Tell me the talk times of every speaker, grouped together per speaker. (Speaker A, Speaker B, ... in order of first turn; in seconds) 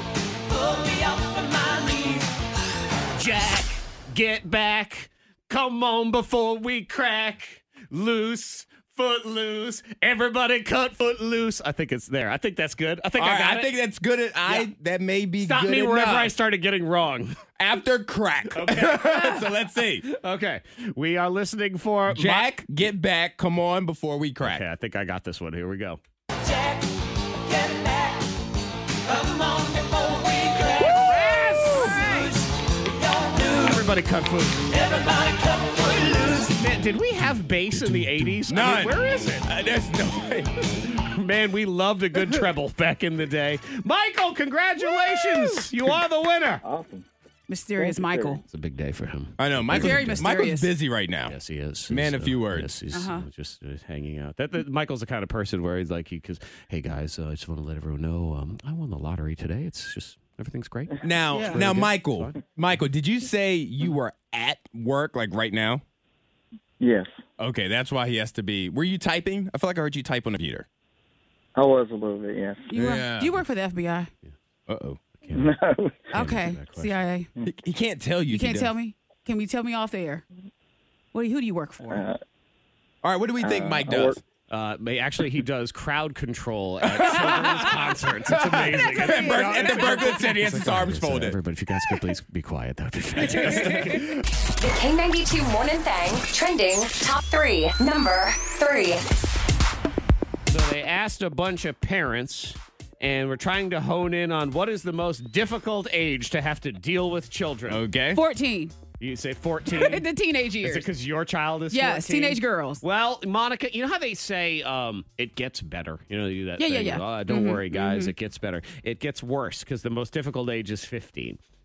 Speaker A: 0.5-2.3, 27.5-28.2, 29.1-32.2, 33.0-33.5, 35.0-36.1
Speaker B: 3.1-13.7, 15.4-17.4, 18.5-19.5, 20.0-22.6, 24.4-26.0, 30.6-32.3, 33.4-35.0, 35.8-39.5, 41.0-46.6, 48.5-50.2, 51.3-62.4, 75.2-75.5, 76.1-77.0, 84.5-94.2, 100.5-107.8, 109.0-110.0, 110.6-121.4
Speaker C: 13.2-16.3, 17.6-20.1, 22.1-24.6, 37.7-40.9, 49.4-51.4, 51.9-52.7, 61.0-65.8, 67.4-70.7, 72.7-73.4, 74.7-75.0, 77.4-78.7, 83.0-84.2, 86.9-87.5, 88.3-91.4, 93.2-93.9, 107.7-108.2
Speaker D: 46.6-47.1, 47.8-48.4, 66.8-67.1, 71.6-72.7, 75.3-76.0, 81.9-82.2, 83.4-84.2
Speaker E: 47.5-48.4, 49.7-50.7, 52.9-53.2, 61.3-61.6, 72.7-74.1, 76.1-77.3, 78.3-80.2, 81.1-82.0, 88.8-90.3, 108.1-108.7, 109.7-110.9, 111.7-112.8, 116.6-118.1
Speaker F: 94.6-99.0